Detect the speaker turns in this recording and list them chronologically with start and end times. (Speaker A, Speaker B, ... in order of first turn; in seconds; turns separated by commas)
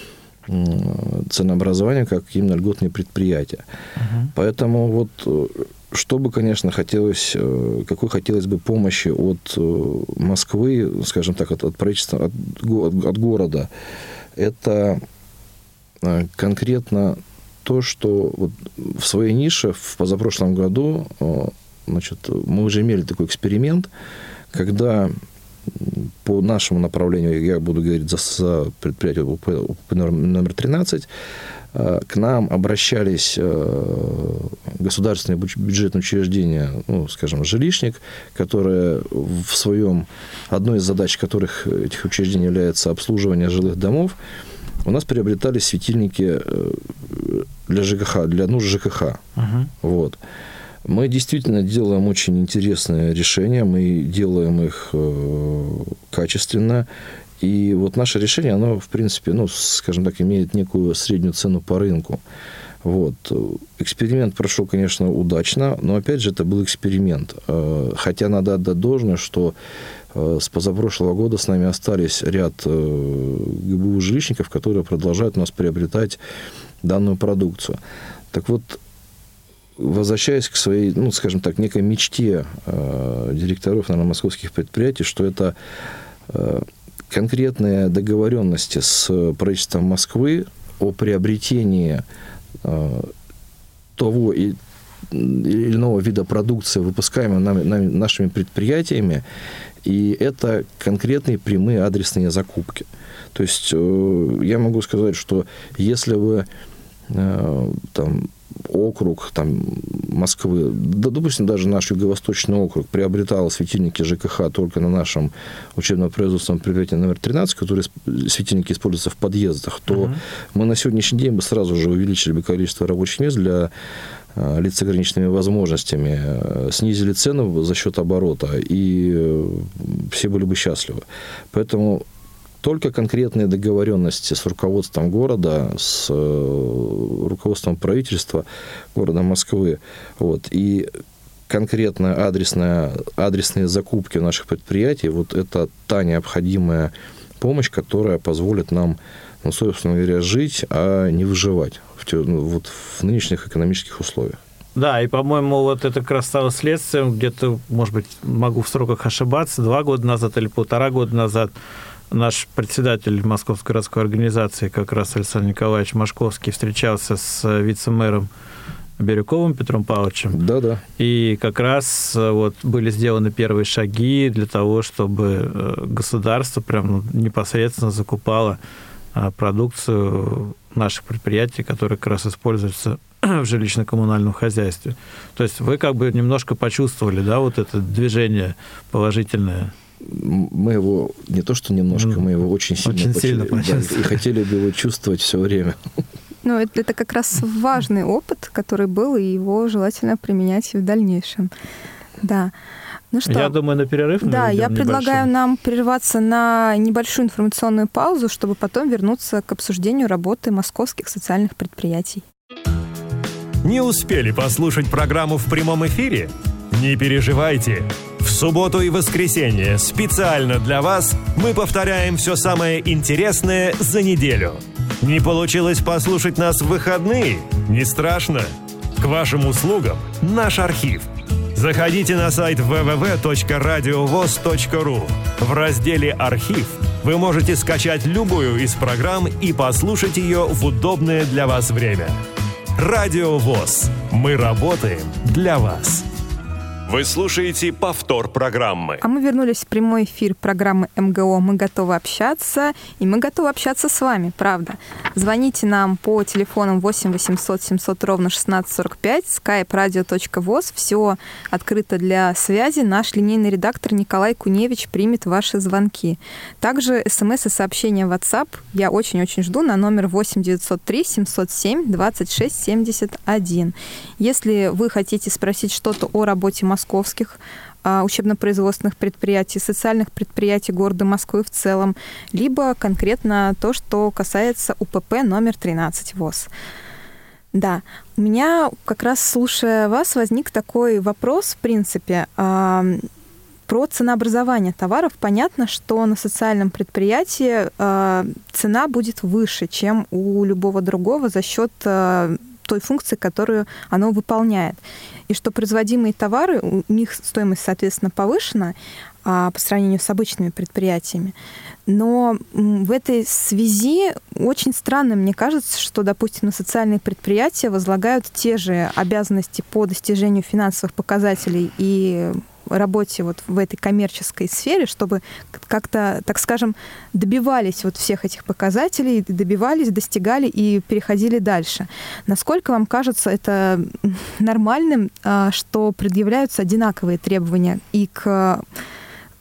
Speaker A: 0.5-3.6, Speaker B: 4.0-4.3, Speaker A: 4.3-13.7, Speaker A: 14.4-15.0, Speaker A: 16.0-23.9, Speaker A: 24.5-25.1, Speaker A: 25.7-31.1, Speaker A: 31.7-44.2, Speaker A: 44.8-49.2, Speaker B: 49.4-49.7, Speaker A: 49.8-50.2, Speaker A: 50.9-56.9, Speaker A: 57.4-62.2, Speaker A: 62.8-69.5, Speaker A: 70.1-76.2, Speaker A: 76.8-77.8, Speaker A: 78.3-78.8, Speaker A: 79.8-85.5, Speaker A: 86.3-92.0, Speaker A: 92.6-93.1, Speaker A: 94.0-94.6, Speaker A: 95.1-99.2, Speaker A: 99.8-106.5, Speaker A: 107.1-123.7, Speaker B: 119.9-120.2, Speaker A: 124.3-132.1, Speaker A: 132.6-140.9, Speaker A: 141.5-154.4, Speaker B: 154.8-161.5, Speaker B: 162.1-168.3, Speaker B: 169.0-170.4, Speaker A: 170.3-170.8, Speaker B: 171.0-178.6, Speaker B: 179.1-189.7, Speaker A: 190.0-195.8, Speaker B: 191.9-192.3, Speaker B: 192.8-194.2, Speaker C: 196.4-201.5, Speaker C: 202.2-202.5, Speaker C: 203.1-203.6, Speaker B: 203.3-205.3, Speaker C: 204.2-212.2, Speaker D: 213.6-242.1, Speaker D: 242.8-246.1, Speaker D: 246.9-249.0, Speaker C: 249.0-286.5, Speaker C: 287.5-293.1, Speaker C: 293.7-311.4, Speaker C: 311.9-338.6